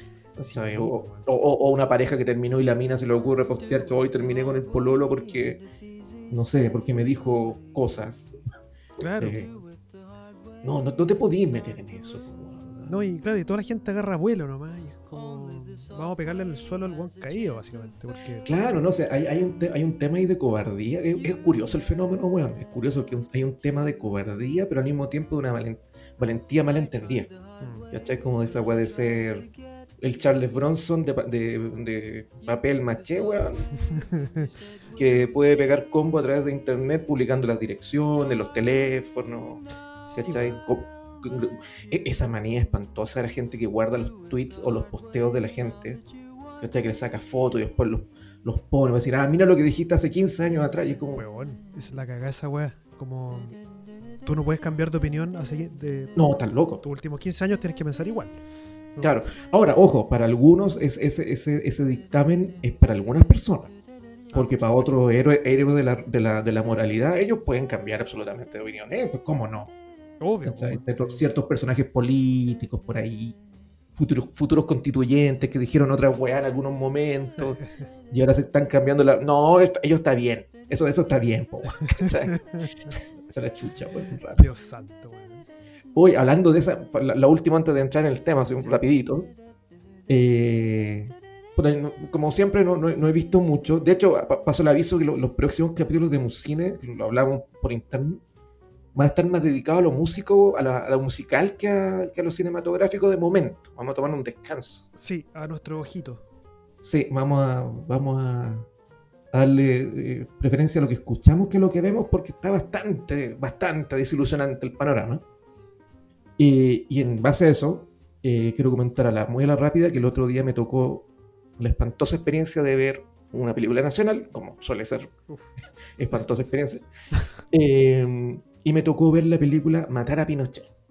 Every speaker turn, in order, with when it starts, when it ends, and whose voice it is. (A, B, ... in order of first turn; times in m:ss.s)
0:00.4-0:05.6 A
0:00.5-0:01.2 B
0:06.3-0:08.3 A
0:09.0-0:09.4 B
0:09.0-0:09.5 A
0:10.6-0:12.9 A
0:12.9-0:18.5 B
0:18.4-0:27.3 A
0:27.6-0:27.9 B
0:27.9-0:33.7 A
0:33.8-0:34.5 B
0:35.0-0:46.0 A
0:40.1-0:40.6 B
0:46.6-0:51.2 A
0:51.0-0:53.6 B
0:54.2-0:56.1 B
0:56.2-0:56.8 A
0:56.8-0:58.4 B
0:59.0-1:03.7 A
1:04.3-1:04.9 B
1:04.3-1:09.7 A
1:10.2-1:11.2 B
1:10.4-1:13.4 A
1:13.9-1:24.5 A
1:17.4-1:17.7 B
1:21.7-1:23.0 B
1:24.4-1:25.4 B
1:25.9-1:29.3 A
1:30.1-1:38.2 A
1:38.9-1:44.9 A
1:45.0-1:46.2 B
1:46.8-1:48.7 A
1:49.3-1:55.2 A
1:56.4-2:01.0 A
2:01.6-2:05.1 A
2:06.0-2:06.8 A
2:07.5-2:10.7 A